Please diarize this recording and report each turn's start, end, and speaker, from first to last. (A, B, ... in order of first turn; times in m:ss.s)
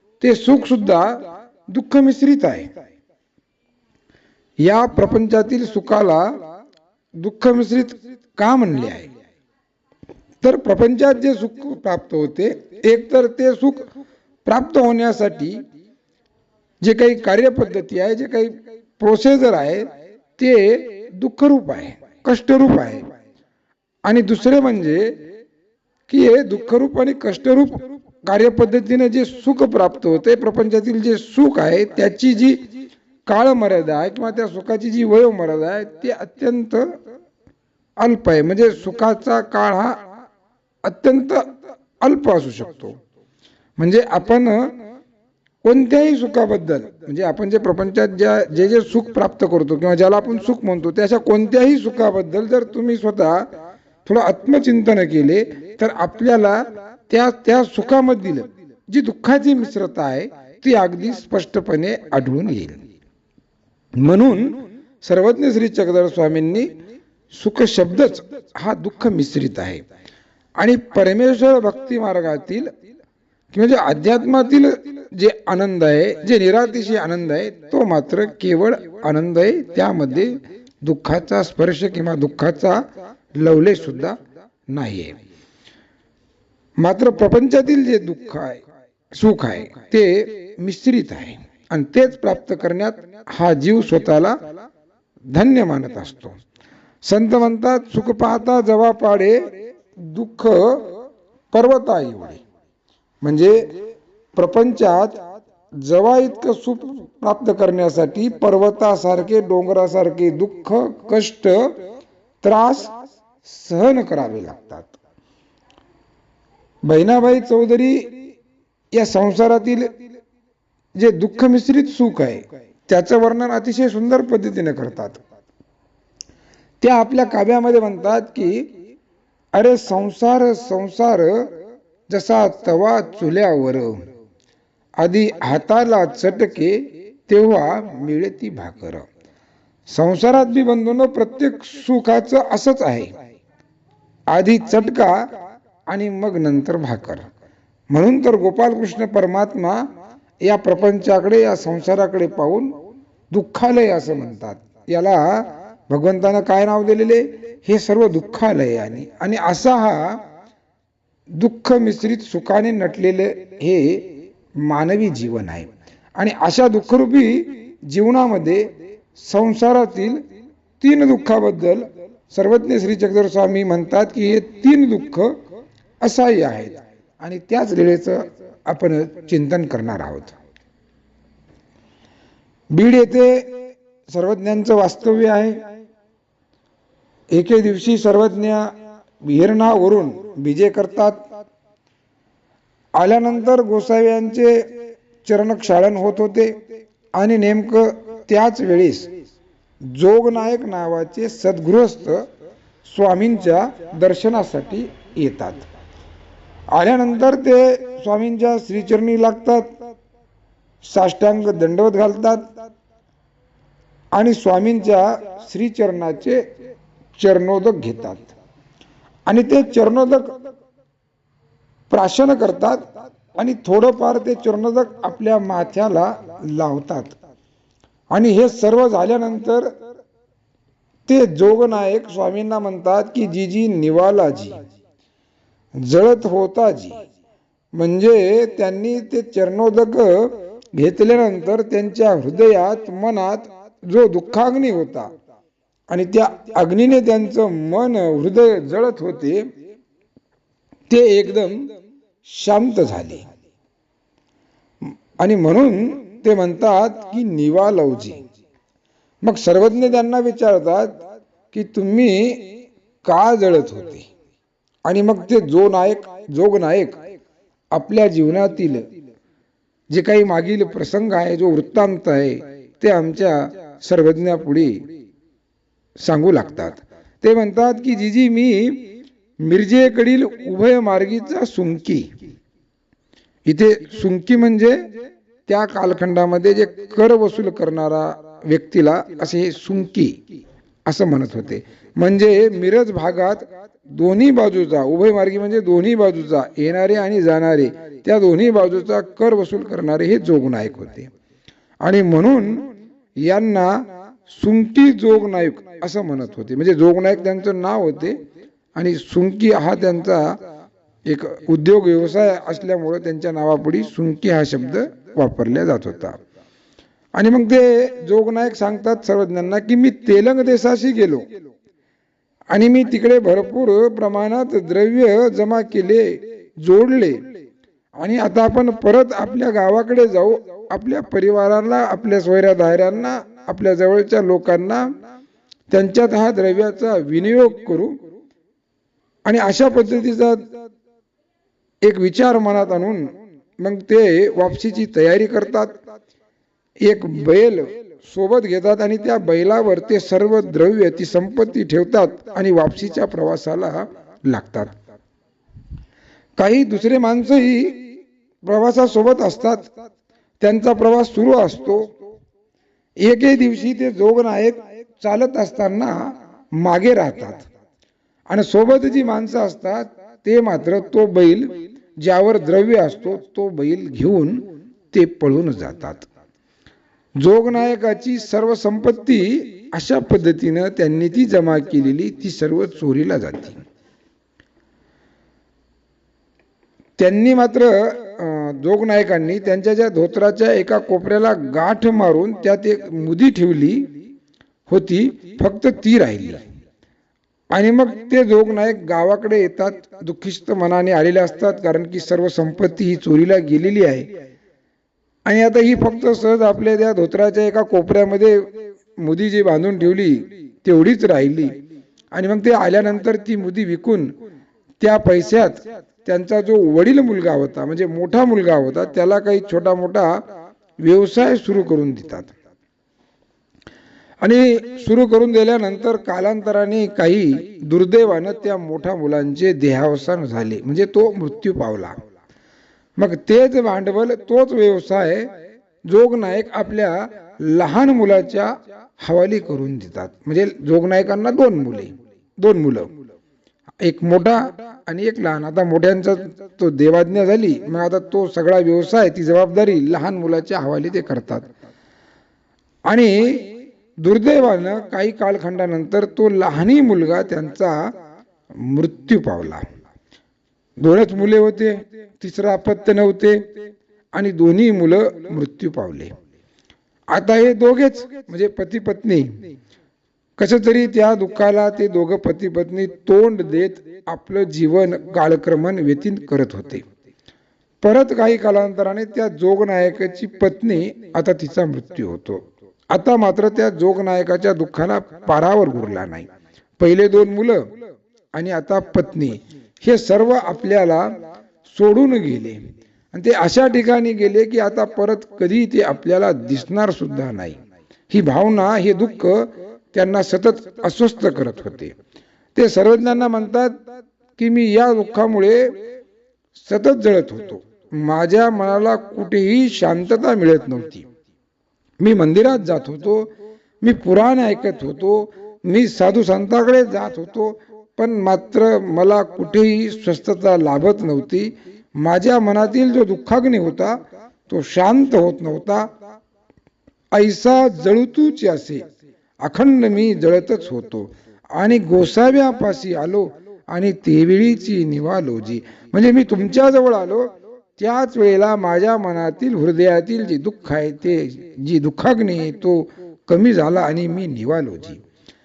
0:00.2-0:02.7 A
0:04.6-0:06.4 A
0:07.2-0:09.1 A
0:10.4-0:13.9 A
0:14.4-0:15.6 A
0:16.8-0:23.1 A
0:24.0-0:25.2 A
0:26.1-0:32.7 A
0:33.3-0:37.0 A
0:38.0-0:40.0 A
0:40.8-0:43.0 A
0:43.8-0:44.8 A
0:45.6-0:53.5 A
0:54.0-1:02.8 A
1:04.0-1:06.7 A
1:07.3-1:09.8 A
1:10.6-1:12.7 A
1:13.5-1:25.2 A
1:26.8-1:34.6 A
1:35.3-1:36.4 A
1:37.0-1:41.0 A
1:41.5-1:42.4 A
1:43.2-1:43.7 A
1:44.4-1:45.2 A
1:45.8-1:51.8 A
1:52.4-1:54.9 A
1:56.8-1:58.2 A
1:58.9-2:00.0 A
2:01.0-2:05.2 A
2:06.8-2:08.8 A
2:09.5-2:11.6 A
2:12.1-2:14.0 A
2:15.0-2:19.1 A
2:19.9-2:23.1 A
2:24.3-2:25.3 A
2:25.9-2:27.3 A
2:27.9-2:29.9 A
2:30.4-2:32.8 A
2:33.3-2:40.2 A
2:41.4-2:50.2 A
2:50.8-2:55.4 A
2:56.0-3:00.4 A
3:02.7-3:03.5 A
3:04.1-3:05.6 A
3:07.3-3:11.2 A
3:13.0-3:14.7 A
3:15.2-3:16.6 A
3:17.1-3:19.1 A
3:19.8-3:22.2 A
3:22.8-3:25.7 A
3:26.7-3:29.7 A
3:30.8-3:32.4 A
3:34.1-3:36.5 A
3:37.2-3:38.4 A
3:39.3-3:40.3 A
3:41.9-3:47.2 A
3:48.1-3:49.7 A
3:51.1-3:54.6 A
3:55.8-3:57.0 A
3:57.7-4:05.1 A
4:05.9-4:09.5 A
4:10.9-4:11.7 A
4:12.2-4:13.2 A
4:15.2-4:18.2 A
4:19.2-4:21.0 A
4:21.5-4:24.1 A
4:24.8-4:27.0 A
4:27.7-4:28.9 A
4:29.9-4:34.9 A
4:36.0-4:42.1 A
4:43.4-4:44.9 A
4:45.5-4:50.2 A
4:50.9-5:01.1 A
5:01.8-5:08.2 A
5:08.7-5:10.4 A
5:11.0-5:16.2 A
5:17.1-5:21.3 A
5:22.5-5:27.2 A
5:28.0-5:34.9 A
5:35.7-5:38.0 A
5:39.2-5:40.5 A
5:41.8-5:45.8 A
5:46.8-5:54.7 A
5:56.4-5:59.7 A
6:00.4-6:01.9 A
6:03.0-6:07.5 A
6:08.3-6:16.1 A
6:17.2-6:23.6 A
6:27.0-6:34.0 A
6:34.7-6:36.4 A
6:37.5-6:44.1 A
6:45.2-6:51.6 A
6:52.1-6:54.1 A
6:54.8-7:00.2 A
7:00.8-7:02.3 A
7:04.2-7:12.0 A
7:13.0-7:15.3 A
7:15.8-7:22.9 A
7:23.8-7:31.5 A
7:32.9-7:37.9 A
7:38.5-7:39.6 A
7:40.8-7:43.5 A
7:44.1-7:46.1 A
7:47.1-7:49.4 A
7:50.4-7:56.8 A
7:57.8-8:07.7 A
8:08.3-8:11.1 A
8:11.6-8:12.6 A
8:13.1-8:21.9 A
8:22.6-8:23.8 A
8:24.4-8:25.8 A
8:26.6-8:31.1 A
8:32.0-8:45.9 A
8:47.1-8:48.8 A
8:49.4-9:05.0 A